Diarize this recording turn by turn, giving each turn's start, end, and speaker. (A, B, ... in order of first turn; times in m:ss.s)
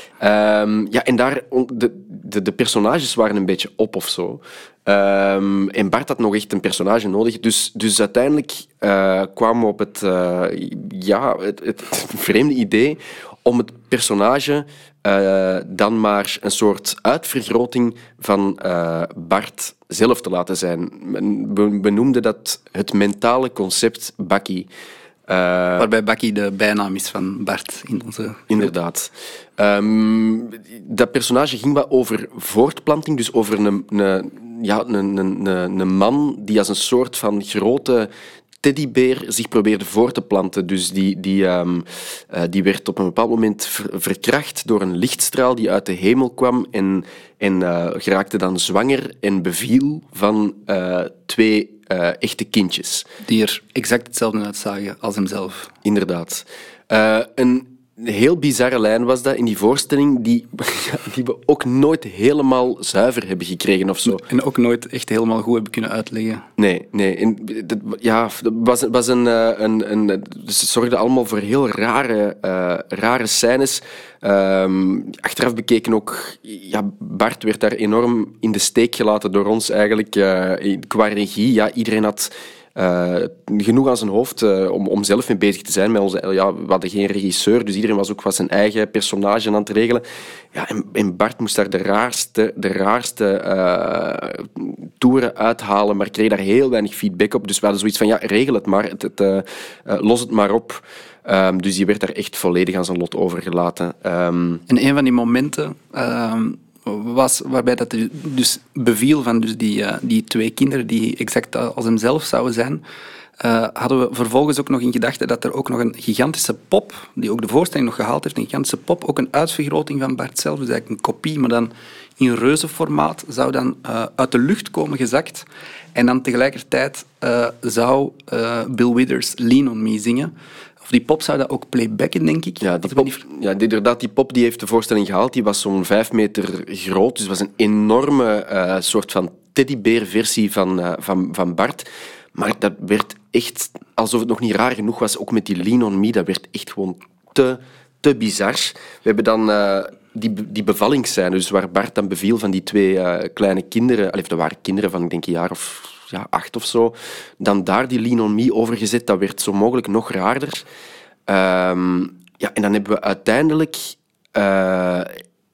0:00.2-0:24.7 A
0:25.3-0:25.9 A
0:25.8-0:28.7 B
0:28.5-0:53.1 A
0:53.2-0:55.7 B
0:55.8-1:04.2 A
1:04.0-1:06.5 B
1:06.6-1:44.6 A
1:44.7-1:52.8 B
1:53.4-2:10.3 B
2:10.8-2:13.2 B
2:12.6-2:40.6 A
2:41.3-2:45.2 A